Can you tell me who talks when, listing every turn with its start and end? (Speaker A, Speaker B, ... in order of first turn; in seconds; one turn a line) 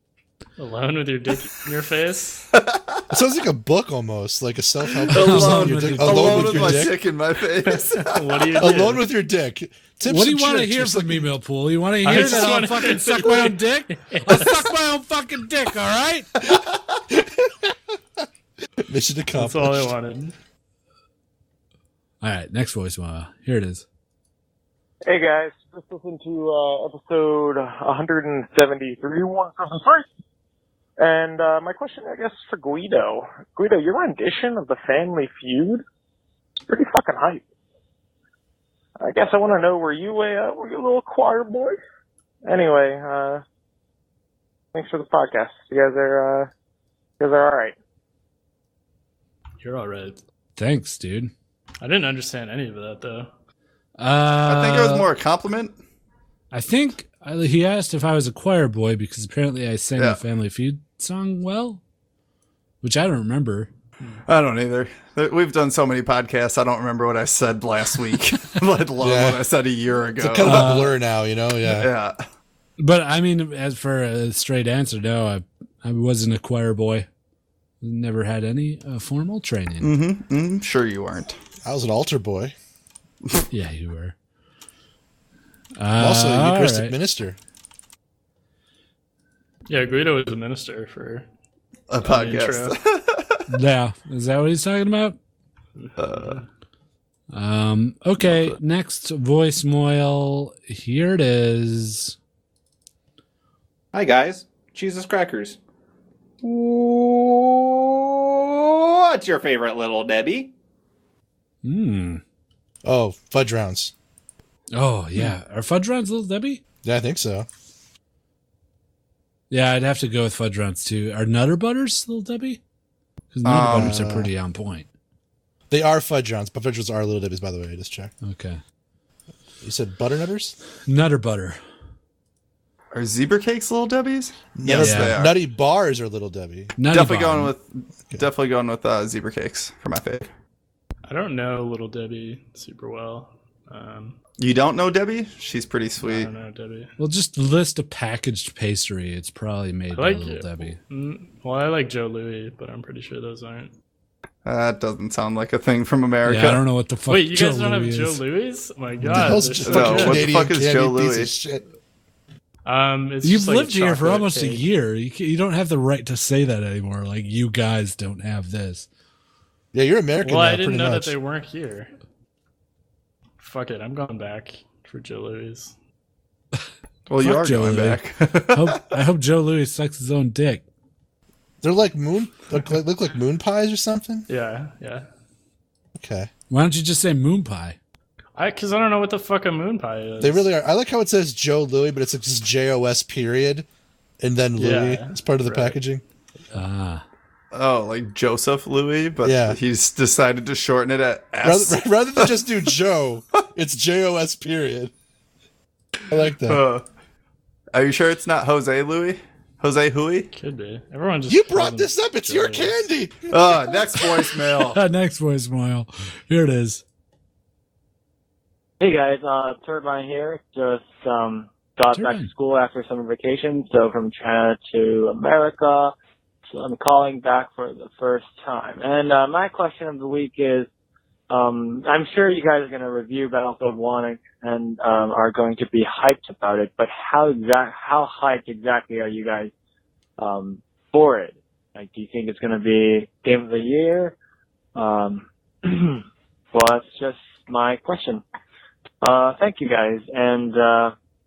Speaker A: 0.6-2.5
Speaker B: 2.5-3.0
Speaker C: 3.1-7.0
Speaker B: 5.1-8.6
Speaker D: 5.1-6.8
Speaker A: 7.7-9.1
Speaker C: 8.6-11.3
Speaker D: 10.1-16.3
Speaker A: 12.0-14.6
Speaker C: 18.8-20.0
Speaker A: 19.4-20.3
Speaker D: 22.2-23.9
Speaker E: 25.1-30.1
Speaker E: 31.0-35.8
Speaker E: 36.7-37.4
Speaker E: 39.0-41.8
Speaker E: 42.5-43.4
Speaker E: 44.7-46.5
Speaker E: 47.2-47.8
Speaker A: 49.6-50.2
Speaker D: 50.6-51.3
Speaker A: 51.8-53.3
Speaker D: 54.0-55.1
Speaker B: 54.4-55.8
Speaker D: 56.5-61.8
Speaker D: 62.8-63.7
Speaker B: 64.3-70.7
Speaker C: 69.0-69.4
Speaker C: 70.2-71.9
Speaker D: 70.4-70.9
Speaker B: 71.7-72.2
Speaker D: 72.8-77.1
Speaker D: 77.8-79.9
Speaker B: 79.8-81.4
Speaker C: 81.6-82.5
Speaker D: 83.5-84.2
Speaker D: 85.8-87.0
Speaker C: 86.0-87.4
Speaker A: 89.7-91.3
Speaker B: 91.9-93.5
Speaker A: 92.0-92.8
Speaker D: 93.5-95.2
Speaker A: 95.8-96.4
Speaker B: 96.0-96.4
Speaker D: 97.3-102.2
Speaker F: 103.9-105.6
Speaker F: 106.4-110.5
Speaker D: 111.6-112.2
Speaker C: 112.8-113.9
Speaker D: 114.8-116.6
Speaker C: 116.8-117.5
Speaker D: 119.5-122.6
Speaker D: 123.3-124.9
Speaker B: 123.5-124.0
Speaker C: 123.6-124.3
Speaker C: 125.7-128.1
Speaker D: 128.2-128.6
Speaker C: 129.6-130.6
Speaker D: 130.9-131.6
Speaker B: 132.9-135.4
Speaker C: 134.6-136.8
Speaker D: 134.8-135.2
Speaker D: 136.8-137.5
Speaker B: 136.9-140.3
Speaker A: 141.1-144.2
Speaker B: 144.4-146.3
Speaker A: 146.0-146.9
Speaker D: 147.0-150.8
Speaker A: 149.9-153.7
Speaker B: 154.4-156.6
Speaker D: 156.3-158.2
Speaker A: 157.1-160.3
Speaker C: 159.0-161.6
Speaker B: 159.6-161.3
Speaker A: 162.7-164.6
Speaker D: 163.2-168.9
Speaker C: 169.7-171.2
Speaker A: 170.2-171.9
Speaker A: 173.4-175.7
Speaker B: 177.1-178.8
Speaker D: 177.2-180.6
Speaker C: 181.6-184.3
Speaker A: 184.3-185.1
Speaker C: 186.0-186.3
Speaker D: 186.5-187.8
Speaker A: 188.4-190.5
Speaker C: 190.2-193.7
Speaker C: 194.2-196.0
Speaker A: 194.6-195.8
Speaker D: 196.5-197.0
Speaker B: 197.5-202.4
Speaker C: 199.2-199.6
Speaker C: 201.4-204.9
Speaker C: 206.1-206.6
Speaker B: 206.5-206.8
Speaker B: 207.7-210.3
Speaker A: 210.3-212.8
Speaker C: 211.3-213.8
Speaker B: 213.3-214.8
Speaker D: 214.6-216.8
Speaker G: 218.8-225.9
Speaker D: 221.9-222.3
Speaker G: 226.5-230.7
Speaker G: 231.3-239.5
Speaker G: 240.2-244.2
Speaker G: 244.8-248.2
Speaker G: 249.0-250.9